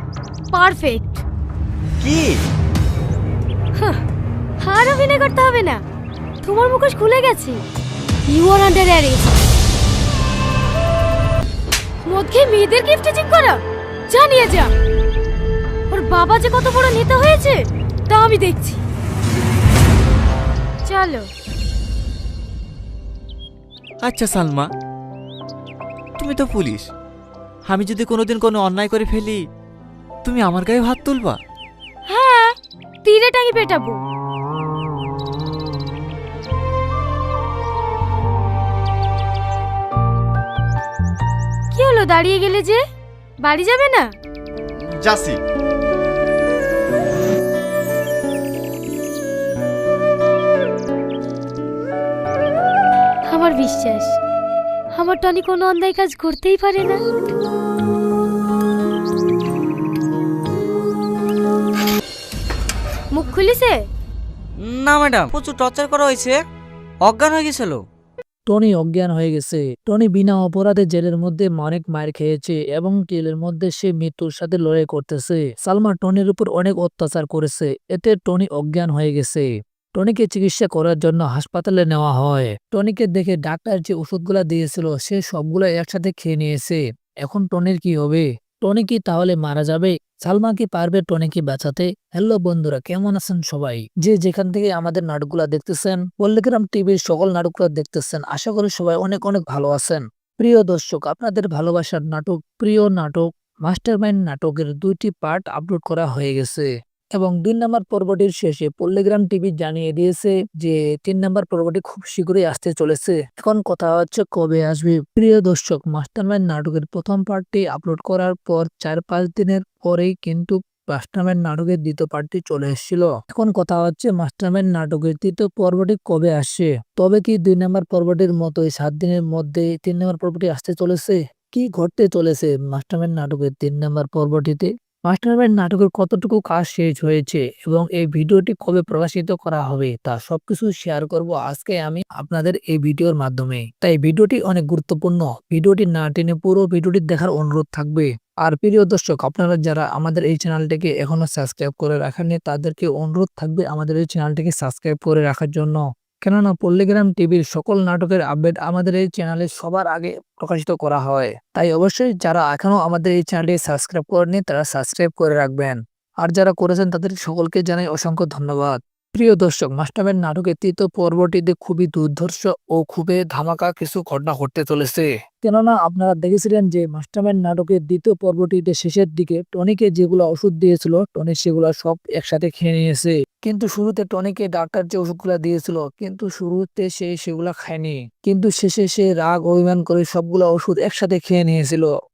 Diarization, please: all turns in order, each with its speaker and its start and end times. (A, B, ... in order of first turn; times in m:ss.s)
0:00.5-0:01.1 A
0:02.0-0:02.4 B
0:04.6-0:05.8 A
0:06.4-0:07.6 A
0:08.3-0:09.2 A
0:12.1-0:13.6 A
0:14.1-0:14.7 A
0:15.9-0:17.5 A
0:18.1-0:18.7 A
0:20.9-0:21.2 A
0:24.0-0:24.7 B
0:26.2-0:26.9 B
0:27.7-0:29.4 B
0:30.2-0:31.4 B
0:32.1-0:32.5 A
0:33.0-0:33.9 A
0:41.7-0:42.8 A
0:43.5-0:44.0 A
0:45.0-0:45.4 B
0:53.3-0:54.1 A
0:55.0-0:56.9 A
1:03.2-1:03.7 A
1:04.6-1:06.4 C
1:07.0-1:07.8 C
1:08.5-3:11.9 D